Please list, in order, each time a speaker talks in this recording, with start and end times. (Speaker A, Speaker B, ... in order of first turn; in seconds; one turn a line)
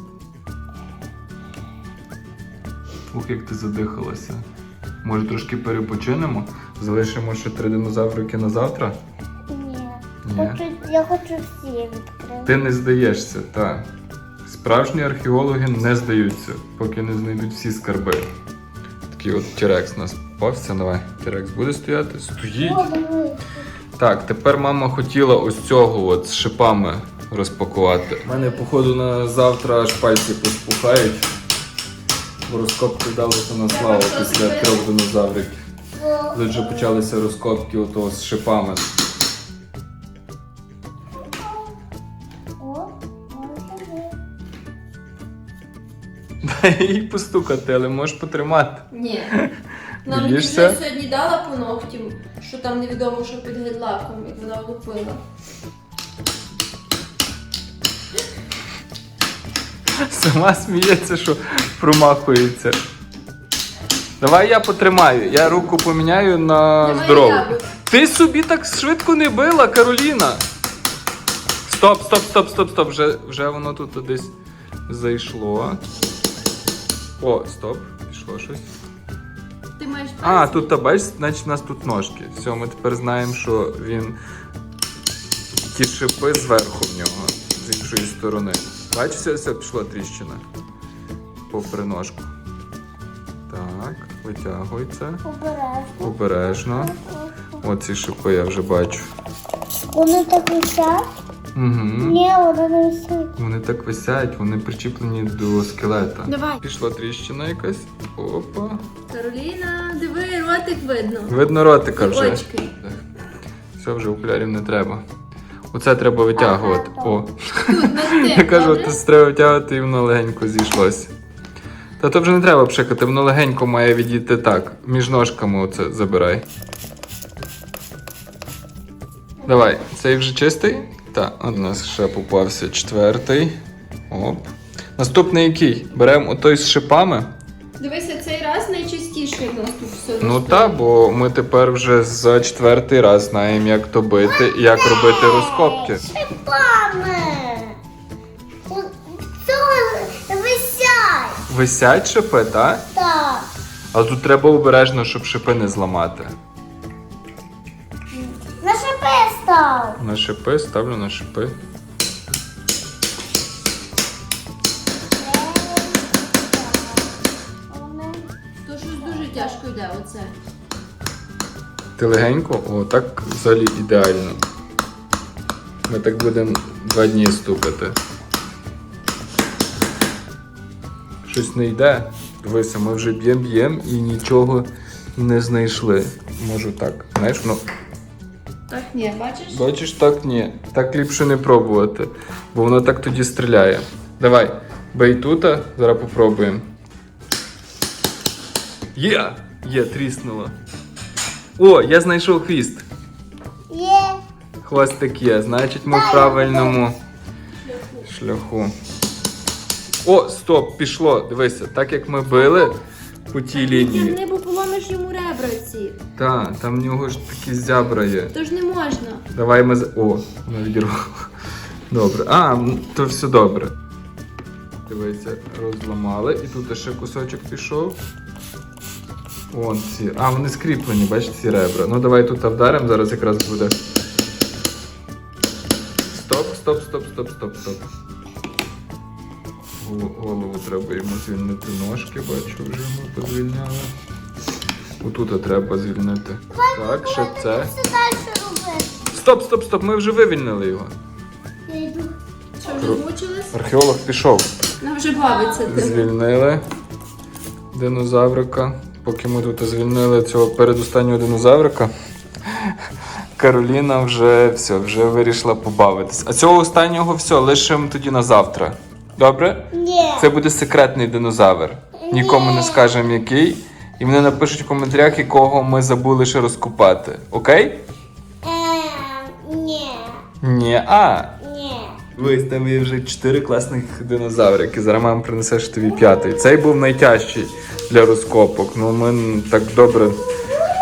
Speaker A: 3.1-4.4
Speaker A: 5.0-9.0
Speaker B: 9.5-12.5
Speaker A: 10.2-10.6
Speaker A: 12.4-13.8
Speaker A: 14.4-18.2
Speaker A: 19.1-22.9
Speaker B: 22.6-23.5
Speaker A: 24.0-31.2
Speaker A: 32.5-35.6
Speaker C: 33.7-34.9
Speaker B: 36.0-36.9
Speaker A: 36.3-38.9
Speaker B: 41.2-41.7
Speaker B: 42.6-44.1
Speaker A: 46.4-49.5
Speaker C: 48.9-49.3
Speaker A: 50.0-50.8
Speaker C: 50.0-55.2
Speaker A: 60.0-62.8
Speaker A: 64.2-70.4
Speaker C: 66.8-67.7
Speaker A: 71.6-74.3
Speaker A: 74.9-75.8
Speaker A: 77.2-78.7
Speaker C: 79.8-81.0
Speaker A: 80.2-84.2
Speaker A: 85.6-90.4
Speaker A: 91.5-92.3
Speaker A: 93.5-95.2
Speaker B: 95.2-97.6
Speaker A: 96.0-96.9
Speaker A: 97.6-99.1
Speaker B: 99.7-101.0
Speaker A: 101.5-102.2
Speaker B: 102.0-103.3
Speaker A: 103.4-108.8
Speaker C: 106.3-106.6
Speaker C: 109.1-111.4
Speaker A: 111.3-113.0
Speaker C: 111.9-112.7
Speaker A: 113.8-115.0
Speaker A: 115.7-121.1
Speaker B: 116.3-117.2
Speaker C: 117.7-119.0
Speaker A: 122.0-126.4
Speaker A: 129.4-133.5
Speaker A: 134.1-137.3
Speaker C: 137.8-140.8
Speaker A: 140.2-146.0
Speaker B: 144.3-147.7
Speaker B: 148.7-151.4
Speaker A: 151.5-152.8
Speaker B: 152.9-153.5
Speaker A: 153.9-156.3
Speaker B: 158.1-160.0
Speaker A: 160.0-161.5
Speaker B: 165.2-167.1
Speaker B: 167.7-168.3
Speaker C: 168.7-170.3
Speaker B: 168.9-169.6
Speaker A: 172.0-174.4
Speaker A: 175.9-177.9
Speaker A: 181.2-187.6
Speaker C: 188.7-189.6
Speaker A: 189.5-196.6
Speaker A: 198.9-200.5
Speaker A: 201.6-202.8
Speaker B: 203.7-204.2
Speaker A: 204.6-207.0
Speaker B: 205.9-206.8
Speaker C: 207.7-208.0
Speaker A: 208.0-208.7
Speaker A: 210.0-212.8
Speaker A: 213.3-214.2
Speaker C: 213.5-216.0
Speaker A: 216.2-218.3
Speaker C: 218.3-219.2
Speaker A: 219.3-221.1
Speaker A: 221.9-223.7
Speaker A: 224.8-228.0
Speaker A: 229.5-233.7
Speaker A: 236.1-237.8
Speaker A: 239.8-243.9
Speaker A: 245.0-247.7
Speaker B: 246.5-248.9
Speaker A: 249.1-250.9
Speaker B: 251.7-252.1
Speaker C: 252.6-253.5
Speaker A: 252.7-254.5
Speaker C: 254.8-256.1
Speaker A: 255.7-256.6
Speaker A: 257.7-261.9
Speaker A: 263.4-277.8
Speaker B: 269.7-270.3
Speaker B: 272.1-272.9
Speaker B: 278.4-280.2
Speaker A: 280.4-281.4
Speaker B: 281.4-282.0
Speaker A: 282.1-290.2